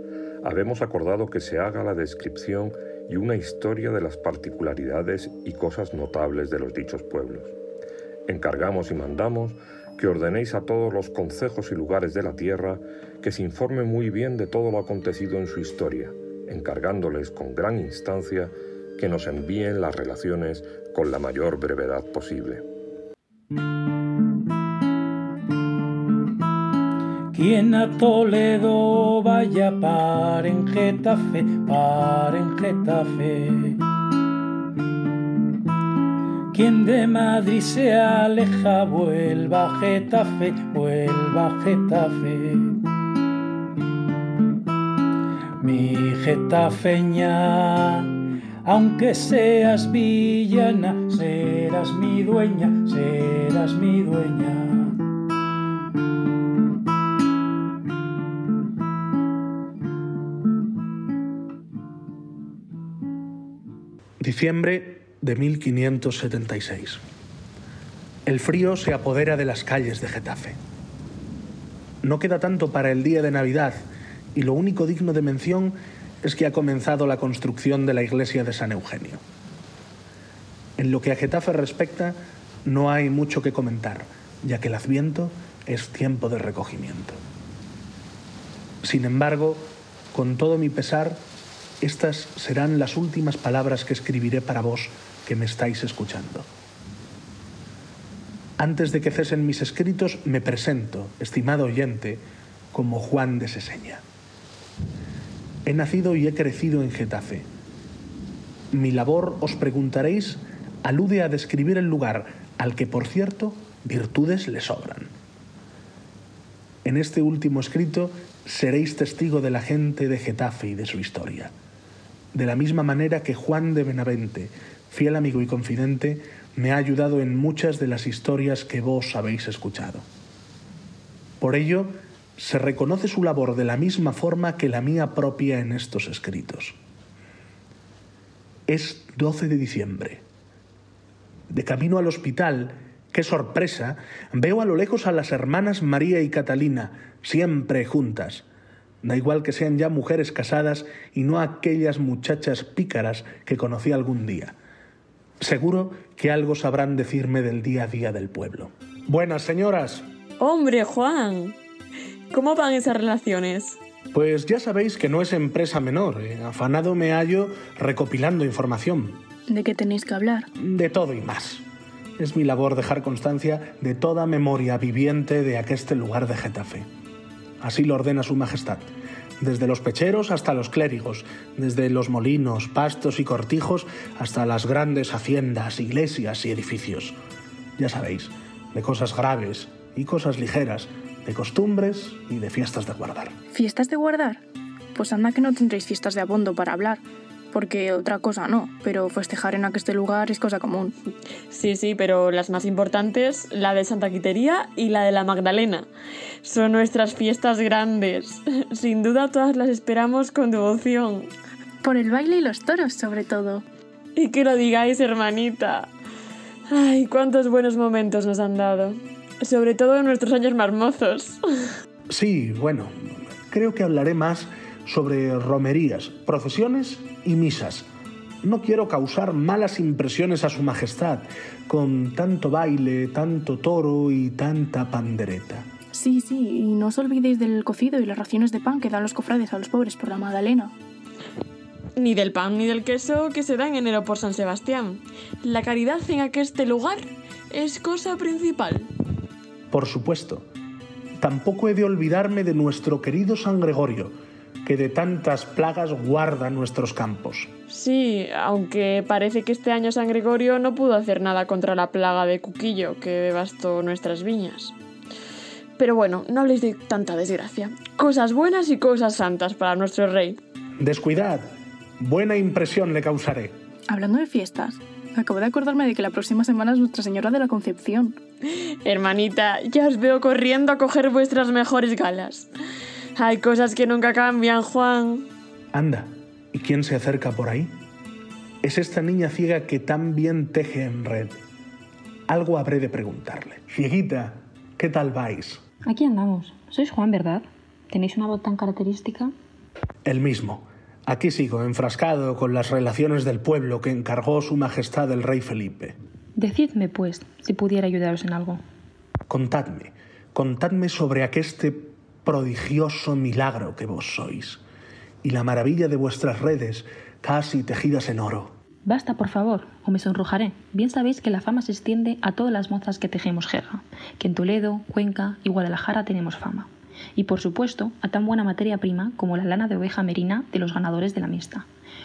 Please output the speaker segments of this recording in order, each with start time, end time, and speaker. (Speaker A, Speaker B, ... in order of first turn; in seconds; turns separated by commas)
Speaker A: 0.4-7.5, Speaker A: 8.3-22.6, Speaker B: 27.3-33.8, Speaker B: 36.5-42.8, Speaker B: 45.6-48.1, Speaker B: 48.6-55.0, Speaker C: 64.2-67.0, Speaker C: 68.3-70.6, Speaker C: 72.0-79.2, Speaker C: 80.8-87.2, Speaker C: 88.8-91.2, Speaker C: 91.8-96.5, Speaker C: 98.6-104.0, Speaker C: 105.7-107.5, Speaker C: 108.7-115.1, Speaker C: 116.8-121.5, Speaker C: 122.3-130.1, Speaker C: 131.4-136.8, Speaker C: 138.7-140.2, Speaker C: 141.5-148.4, Speaker C: 149.0-154.6, Speaker C: 155.4-160.1, Speaker D: 160.4-161.6, Speaker D: 162.3-163.8, Speaker C: 164.1-169.2, Speaker E: 169.5-170.4, Speaker C: 170.6-171.7, Speaker C: 172.2-176.9, Speaker C: 177.6-178.8, Speaker C: 179.4-187.2, Speaker C: 187.8-193.3, Speaker E: 193.6-194.4, Speaker E: 194.9-197.0, Speaker E: 197.5-200.9, Speaker D: 201.5-205.9, Speaker D: 206.4-211.3, Speaker E: 211.8-213.6, Speaker D: 214.2-215.9, Speaker D: 216.7-221.6, Speaker C: 222.1-222.9, Speaker C: 223.5-227.9, Speaker C: 228.4-235.7, Speaker E: 236.0-240.7, Speaker D: 242.0-248.9, Speaker C: 249.7-250.5, Speaker C: 251.2-257.5, Speaker D: 257.7-264.7, Speaker D: 265.8-270.4, Speaker C: 270.8-273.6, Speaker E: 273.9-278.1, Speaker D: 278.8-282.5, Speaker D: 283.2-285.3, Speaker C: 285.7-287.7, Speaker C: 288.6-291.3, Speaker C: 292.3-295.6, Speaker F: 295.9-299.3, Speaker C: 300.1-305.9, Speaker F: 306.4-308.6, Speaker C: 309.3-314.6, Speaker C: 315.2-318.5, Speaker F: 318.9-331.6